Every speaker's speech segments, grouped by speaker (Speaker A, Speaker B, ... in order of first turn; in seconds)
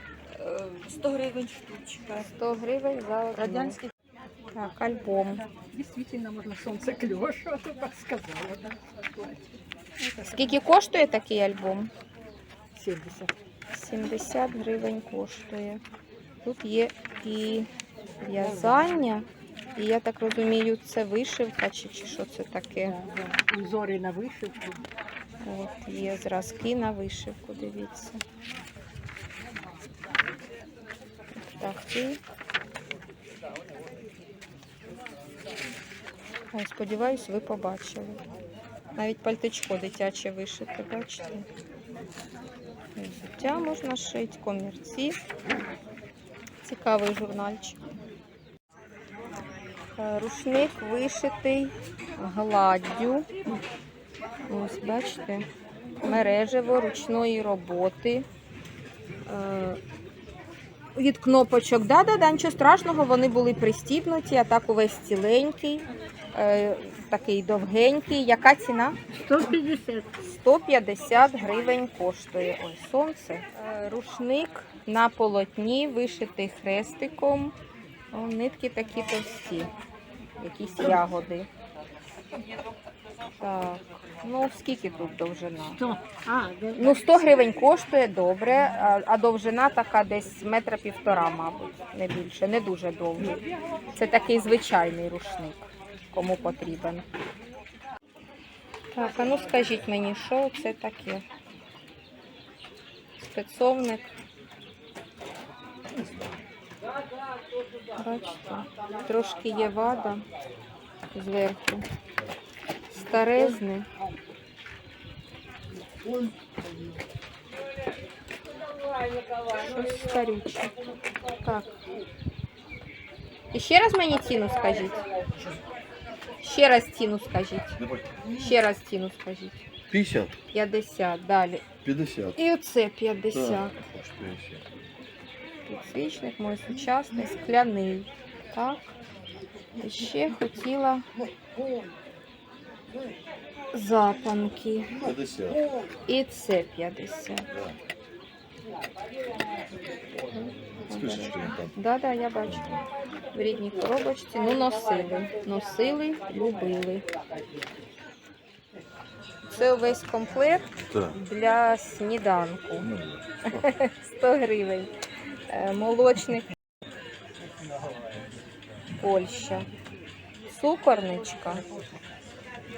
Speaker A: 0.3-2.2, 3.4-3.9
Speaker B: 2.2-3.8, 4.5-5.4, 10.3-11.9, 13.7-15.8, 16.4-17.7, 18.2-22.9, 25.4-28.2, 31.4-32.2, 36.5-38.2, 39.0-41.5, 43.0-45.2, 46.6-47.8, 50.0-53.3, 54.5-55.5, 56.0-58.3, 59.3-59.8, 61.0-69.0, 70.3-77.5, 78.1-79.7, 80.4-81.5, 83.4-85.8, 86.8-93.4, 94.0-97.0, 98.9-101.2, 103.2-104.1, 108.0-110.2, 111.1-111.8, 112.9-113.9, 119.5-120.7, 121.4-121.8, 123.5-125.0, 126.4-127.8, 128.4-129.7, 130.5-131.7, 132.4-133.8, 135.7-138.9, 139.8-141.1, 143.7-145.0, 146.1-147.5, 150.3-152.7, 153.3-157.1, 159.5-162.9, 163.5-164.9, 165.5-166.5, 169.0-169.7, 170.5-171.7
Speaker C: 5.5-10.6, 12.8-13.3, 22.8-24.8, 69.2-70.1, 85.8-87.0
Speaker D: 127.8-128.1, 129.9-130.3, 131.8-132.4, 133.3-134.7, 145.0-145.6, 150.9-151.8, 152.5-152.8, 160.8-161.2, 162.8-163.7